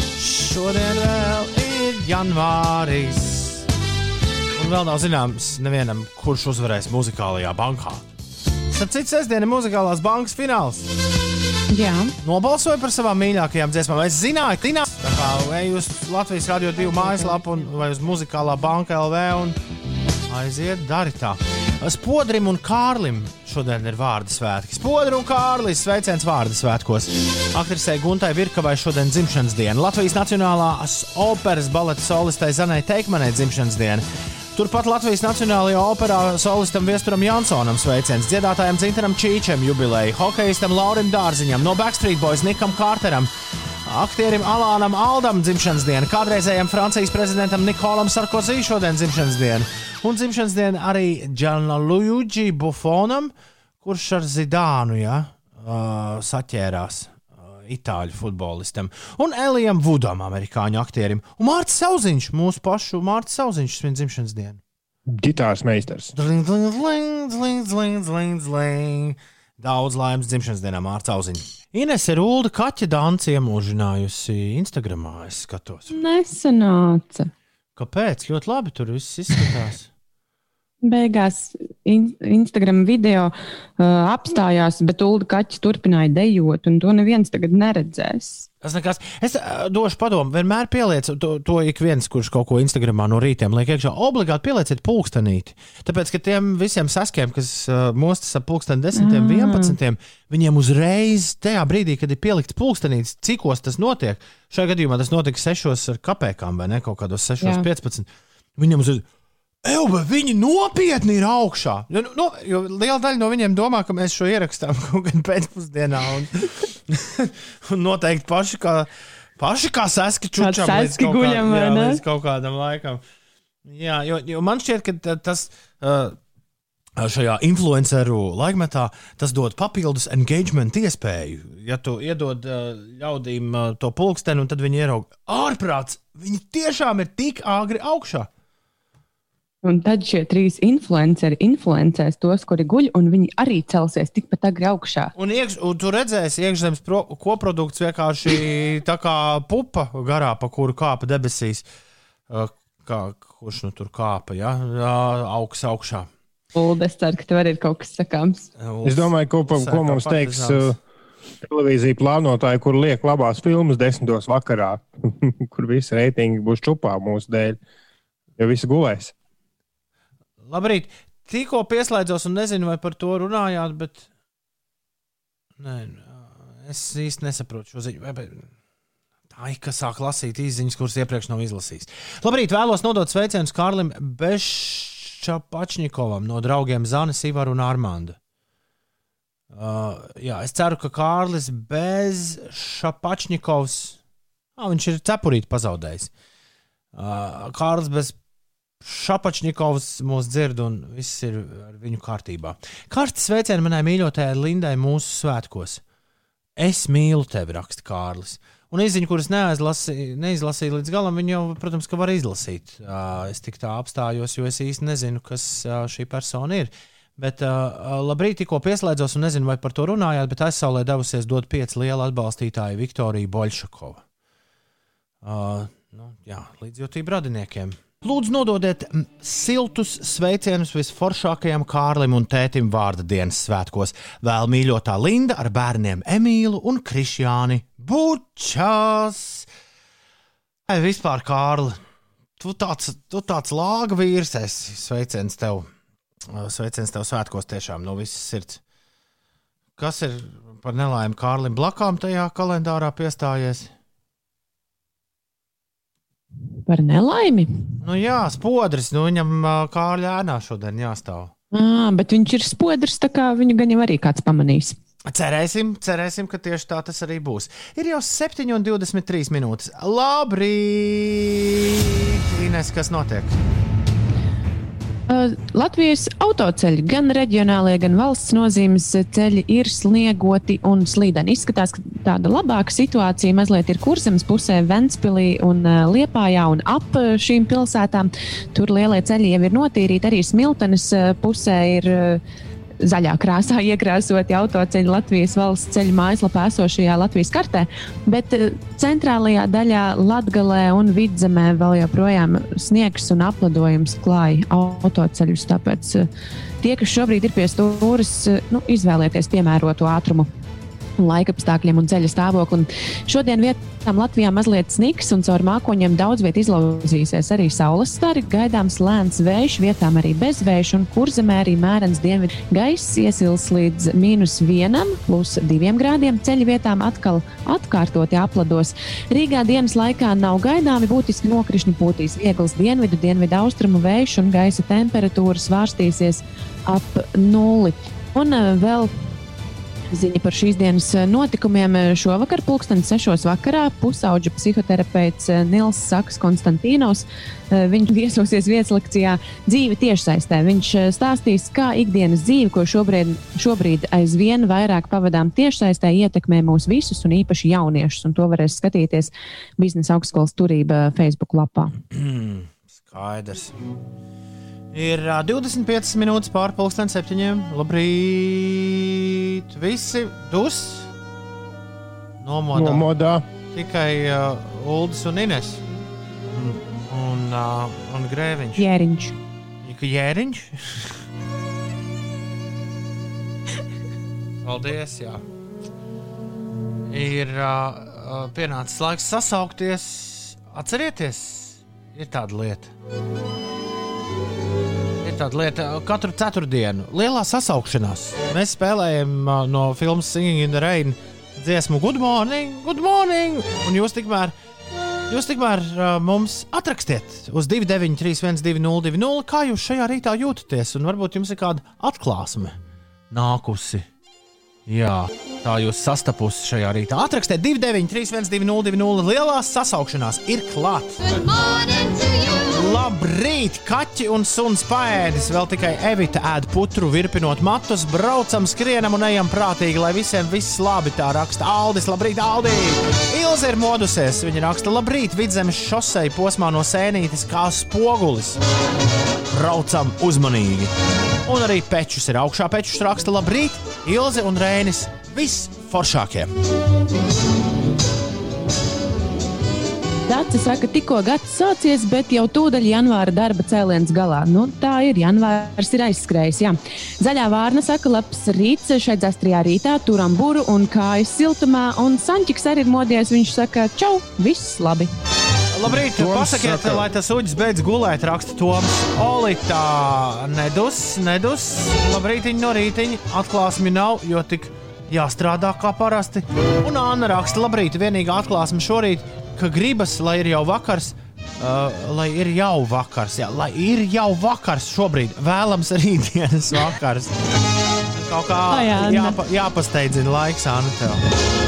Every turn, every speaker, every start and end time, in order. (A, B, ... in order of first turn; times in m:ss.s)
0:00.2-0:03.6 A
0:04.6-0:08.1 A
0:08.7-0:10.9 A
0:11.7-0:12.1 B
0:12.2-0:19.6 A
0:16.9-0:17.4 B
0:20.3-0:43.3 A
0:43.8-1:04.6 A
1:05.1-1:06.1 C
1:06.1-1:16.0 A
1:15.9-1:17.3 B
1:17.8-1:19.9 A
1:20.8-1:28.5 B
1:28.6-1:49.0 A
1:38.9-1:39.8 B
1:47.4-1:47.7 B
1:49.6-2:03.0 A
2:00.4-2:02.0 B
2:03.7-2:06.2 A
2:07.0-2:18.3 A
2:19.6-2:25.1 B
2:25.2-2:31.6 A
2:32.3-2:36.1 A
2:36.6-2:38.5 B
2:38.6-2:40.8 A
2:38.8-2:40.8 C
2:41.4-2:47.6 C
2:48.4-2:49.1 C
2:50.4-2:54.1 A
2:55.6-2:58.4 A
2:59.3-3:08.2 A
3:09.5-3:14.0 A
3:14.6-3:16.1 A
3:17.0-3:18.2 A
3:18.8-3:25.8 A
3:26.6-3:44.0 A
3:45.2-3:59.5 A
4:00.7-4:01.8 A
4:02.4-4:05.7 A
4:06.3-4:08.6 A
4:09.8-4:13.7 A
4:16.7-4:17.5 B
4:17.8-4:21.3 A
4:21.5-4:24.8 B
4:25.1-4:33.4 A
4:35.1-4:52.2 B
4:52.8-5:06.0 B
5:06.6-5:10.3 B
5:11.0-5:38.9 B
5:39.9-6:01.7 B
6:01.9-6:03.6 A
6:04.7-6:10.9 A
6:12.2-6:12.9 A
6:12.5-6:13.3 C
6:13.5-6:15.6 A
6:16.3-6:18.6 A
6:18.6-6:19.1 B
6:19.6-6:21.0 A
6:24.4-6:25.2 A
6:26.9-6:32.7 A
6:35.0-6:44.3 A
6:45.1-6:52.6 A
6:53.1-6:53.8 A
6:54.7-7:01.2 A
7:02.4-7:18.4 A
7:19.3-7:20.7 A
7:21.3-7:26.3 A
7:30.1-7:44.9 B
7:45.5-8:07.2 A
7:45.7-7:46.9 C
8:07.9-8:11.0 A
8:08.5-8:09.2 B